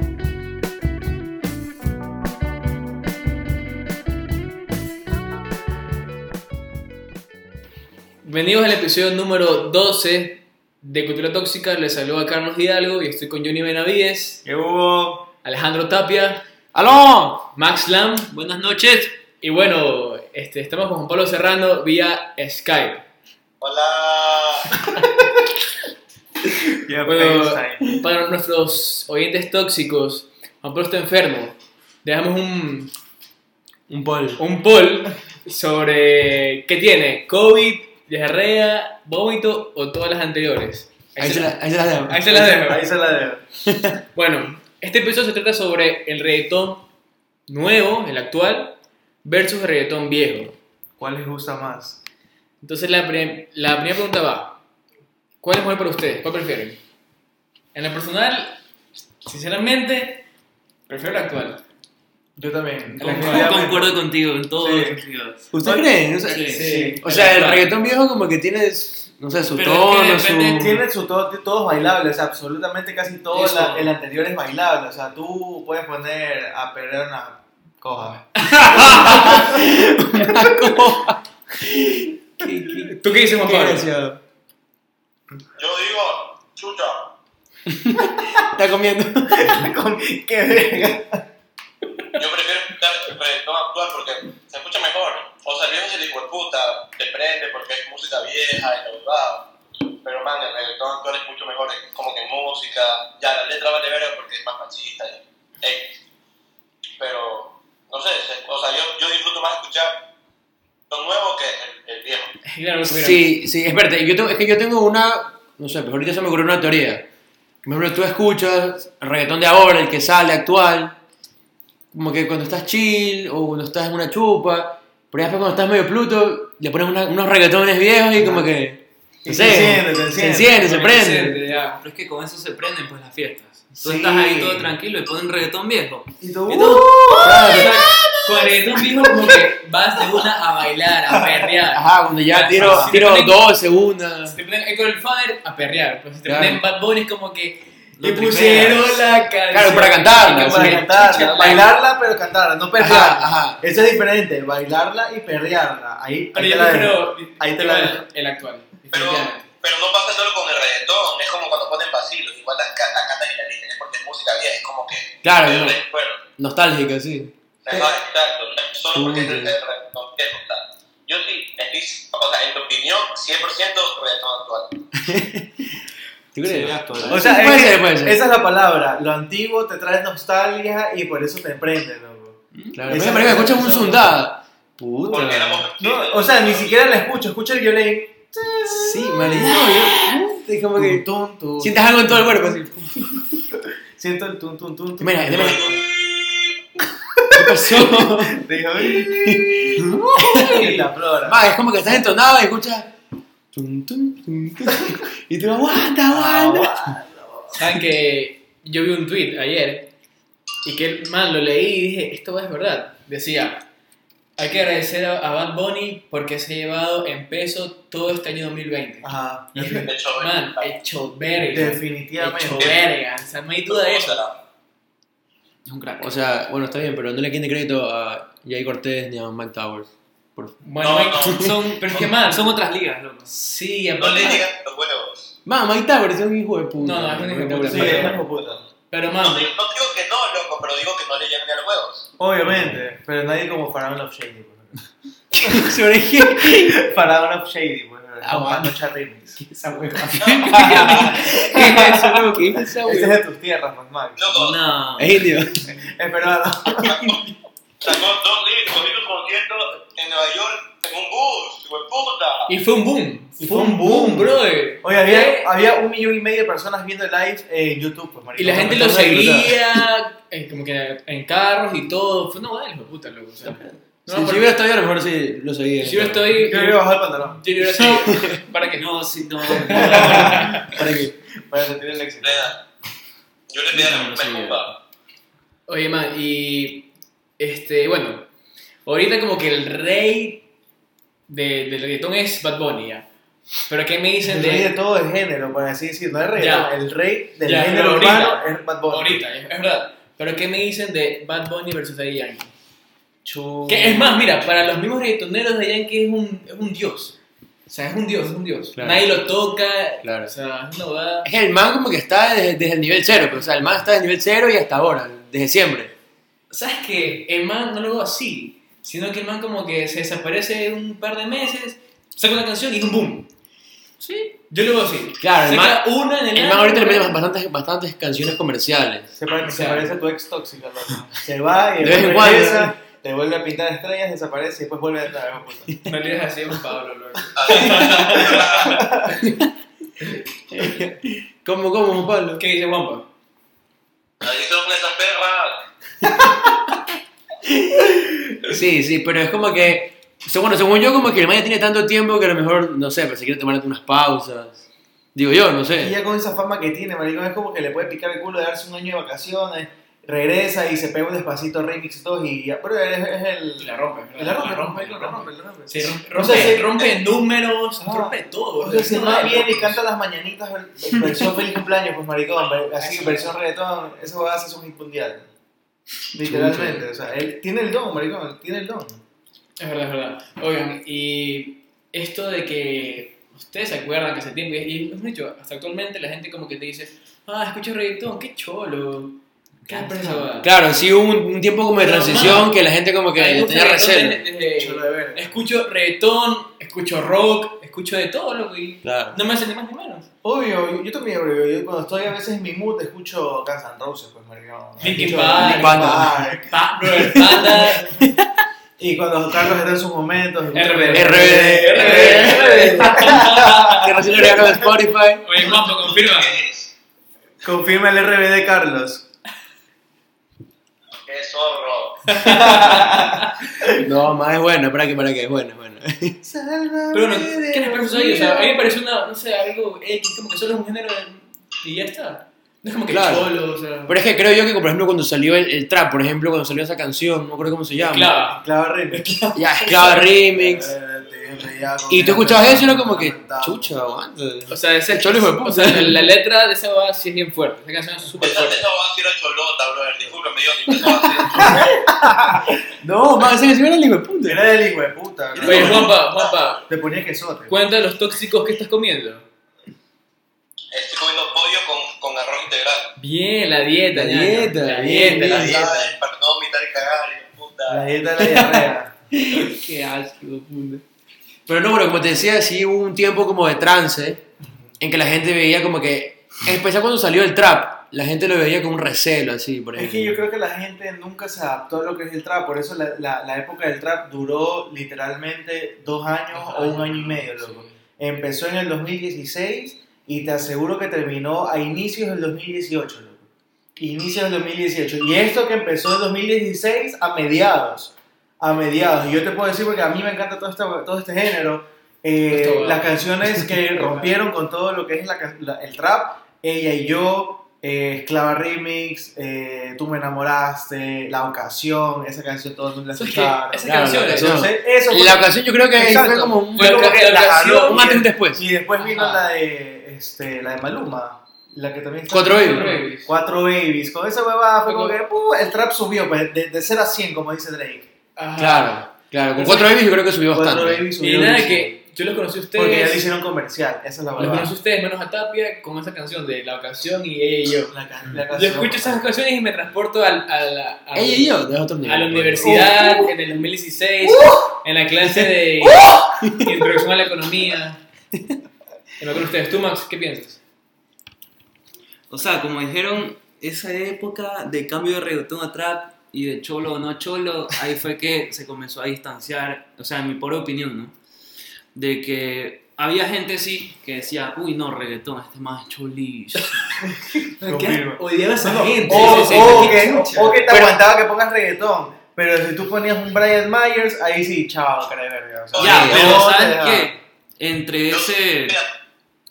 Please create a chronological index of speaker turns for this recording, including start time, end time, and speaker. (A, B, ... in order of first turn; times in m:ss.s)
0:08.2-0:14.4 A
0:14.4-0:15.3 B
0:15.4-0:16.4 A
0:16.7-0:17.5 C
0:17.6-0:18.3 A
0:18.3-0:19.2 D
0:19.4-0:23.0 A
0:23.6-0:24.7 E
0:26.8-0:28.0 B
0:27.1-0:32.9 A
0:33.9-0:34.4 C
0:34.4-0:42.9 A
0:41.2-0:42.2 C
0:42.3-0:43.4 B
0:43.7-0:44.0 C
0:44.2-0:46.9 A
0:47.5-0:50.6 A
0:51.0-0:52.0 B
0:52.6-0:54.6 A
0:55.4-0:56.8 A
0:57.7-0:58.6 A
0:59.2-1:00.3 A
1:00.9-1:01.6 A
1:02.4-1:04.0 B
1:02.9-1:05.5 D
1:03.0-1:03.5 A
1:04.6-1:05.0 B
1:05.5-1:10.8 C
1:05.6-1:05.9 B
1:06.3-1:06.7 D
1:06.4-1:07.0 B
1:06.5-1:07.7 A
1:09.5-1:10.8 D
1:10.6-1:19.8 B
1:13.3-1:13.9 A
1:18.4-1:24.2 C
1:18.5-1:19.4 A
1:22.8-1:23.9 A
1:25.6-1:27.1 E
1:27.7-1:29.7 C
1:29.3-1:31.2 B
1:32.1-1:39.5 E
1:40.0-1:45.9 E
1:47.0-1:50.0 E
1:50.9-1:52.3 E
1:52.4-1:53.3 A
1:52.8-1:57.1 C
1:57.6-2:01.0 C
2:01.9-2:11.4 C
2:08.2-2:08.5 B
2:09.2-2:10.6 B
2:10.5-2:11.8 A
2:11.8-2:17.4 D
2:13.8-2:14.7 B
2:16.2-2:18.0 B
2:16.9-2:17.9 C
2:17.4-2:23.4 A
2:21.7-2:24.4 C
2:22.6-2:23.0 B
2:24.3-2:31.8 A
2:26.3-2:26.6 C
2:28.0-2:29.0 D
2:29.5-2:30.9 C
2:30.4-2:38.0 B
2:32.8-2:33.6 C
2:36.3-2:39.5 A
2:38.9-2:46.2 E
2:45.2-2:45.8 C
2:46.4-2:47.4 C
2:47.7-2:54.8 E
2:48.9-2:49.6 C
2:55.0-2:55.8 C
2:56.3-2:58.2 C
2:56.4-2:57.3 D
2:57.1-3:04.0 B
3:02.5-3:03.0 D
3:02.7-3:05.6 C
3:05.0-3:06.8 E
3:05.8-3:09.6 B
3:08.7-3:11.1 C
3:09.4-3:09.9 D
3:10.8-3:12.5 B
3:11.6-3:13.1 C
3:14.0-3:15.8 B
3:15.0-3:15.8 C
3:15.6-3:16.5 E
3:17.2-3:21.5 B
3:17.3-3:20.6 C
3:19.9-3:20.9 A
3:21.2-3:22.9 C
3:23.5-3:27.0 C
3:26.1-3:27.5 B
3:27.5-3:29.9 A
3:30.6-3:33.7 A
3:34.4-3:44.2 A
3:39.0-3:39.9 B
3:39.8-3:40.7 E
3:41.5-3:42.8 B
3:43.7-3:44.4 E
3:45.7-3:46.1 D
3:46.0-3:50.6 C
3:50.6-3:52.4 A
3:50.8-3:52.0 E
3:51.2-3:51.5 C
3:51.3-3:53.3 D
3:53.3-3:54.5 A
3:54.0-3:55.3 E
3:55.5-3:58.2 C
3:56.8-3:58.2 A
3:57.7-3:58.6 B
3:58.9-3:59.5 A
3:59.2-4:02.1 E
4:02.2-4:04.9 B
4:02.5-4:02.8 C
4:05.3-4:06.8 C
4:05.4-4:09.4 B
4:08.2-4:08.8 C
4:09.4-4:13.2 C
4:10.2-4:10.6 E
4:10.5-4:14.3 B
4:14.2-4:14.6 E
4:14.3-4:15.3 D
4:15.0-4:15.6 C
4:15.6-4:17.1 B
4:16.8-4:17.2 E
4:17.8-4:22.5 E
4:22.5-4:25.5 A
4:23.4-4:29.6 B
4:28.4-4:34.5 A
4:33.4-4:36.3 C
4:35.8-4:38.9 A
4:36.4-4:37.4 B
4:38.0-4:38.4 C
4:38.8-4:40.4 D
4:39.6-4:40.7 A
4:39.7-4:42.5 B
4:39.8-4:41.1 C
4:42.2-4:42.6 E
4:43.5-4:44.7 E
4:43.7-4:44.7 D
4:45.7-4:48.3 A
4:48.9-4:50.5 A
4:51.3-4:53.1 A
4:53.7-4:54.7 A
4:54.3-4:59.2 B
4:56.4-4:56.7 A
4:57.4-5:02.5 A
5:03.2-5:04.5 B
5:03.7-5:07.2 A
5:07.7-5:11.3 A
5:08.8-5:09.2 C
5:10.0-5:10.3 C
5:11.2-5:15.9 C
5:16.5-5:23.3 A
5:24.0-5:27.2 A
5:25.2-5:29.2 C
5:29.2-5:35.8 B
5:29.4-5:30.0 A
5:31.8-5:32.8 C
5:35.8-5:38.8 A
5:37.4-5:38.8 E
5:38.6-5:39.2 B
5:39.2-5:39.5 C
5:40.5-5:42.4 C
5:42.4-5:43.1 A
5:44.2-5:45.6 E
5:46.0-5:46.7 C
5:47.5-5:54.6 C
5:55.2-5:56.0 C
5:55.8-6:06.9 B
6:03.6-6:09.8 A
6:07.8-6:15.3 B
6:12.7-6:13.4 A
6:16.1-6:19.0 B
6:16.2-6:16.8 C
6:19.6-6:30.5 A
6:29.7-6:30.3 D
6:30.4-6:34.2 C
6:31.8-6:32.5 A
6:33.2-6:40.1 A
6:34.6-6:35.4 B
6:38.8-6:39.2 C
6:40.2-6:46.5 B
6:44.8-6:47.9 A
6:44.8-6:46.4 C
6:47.0-6:48.3 C
6:48.8-6:54.7 B
6:50.5-6:53.9 A
6:50.9-6:55.3 C
6:55.2-6:56.4 A
6:55.5-6:56.7 E
6:57.4-6:59.0 B
7:01.1-7:02.2 E
7:02.1-7:03.2 A
7:02.2-7:03.8 B
7:03.8-7:06.2 C
7:06.2-7:08.7 B
7:06.9-7:14.0 A
7:12.9-7:13.3 C
7:13.9-7:18.2 C
7:17.8-7:20.1 A
7:18.2-7:19.2 B
7:19.4-7:20.8 C
7:19.8-7:23.7 B
7:21.9-7:26.1 C
7:24.5-7:28.7 A
7:28.2-7:31.7 E
7:30.7-7:31.8 C
7:31.6-7:32.4 B
7:32.7-7:34.4 C
7:34.3-7:36.0 B
7:35.4-7:35.9 C
7:35.4-7:36.6 A
7:36.7-7:37.6 B
7:37.5-7:39.3 A
7:40.7-7:42.9 E
7:43.0-7:45.9 A
7:43.9-7:45.7 C
7:45.2-7:47.9 E
7:47.7-7:48.9 B
7:48.2-7:50.8 C
7:51.5-7:54.2 C
7:54.8-8:00.2 C
7:59.8-8:47.9 B
8:06.3-8:07.8 A
8:22.3-8:23.0 A
8:23.8-8:24.1 A
8:32.9-8:34.5 A
8:33.6-8:38.4 C
8:36.5-8:38.0 A
8:38.8-8:39.3 A
8:42.1-8:42.8 C
8:42.3-8:43.1 A
8:44.7-8:45.0 A
8:48.2-8:49.7 A
8:48.4-8:50.9 C
8:50.3-8:51.8 B
8:51.0-8:53.1 A
8:52.6-8:54.5 B
8:54.2-8:57.8 A
8:57.7-8:59.1 B
8:58.3-9:07.8 A
9:00.9-9:02.8 C
9:02.4-9:03.0 B
9:05.0-9:06.7 C
9:09.0-9:10.4 A
9:12.1-9:21.0 D
9:21.8-9:26.9 D
9:27.3-9:30.4 A
9:27.4-9:37.0 B
9:28.9-9:30.3 D
9:30.5-9:30.8 C
9:35.5-9:36.2 E
9:35.6-9:38.6 D
9:35.6-9:36.1 C
9:37.9-9:38.7 E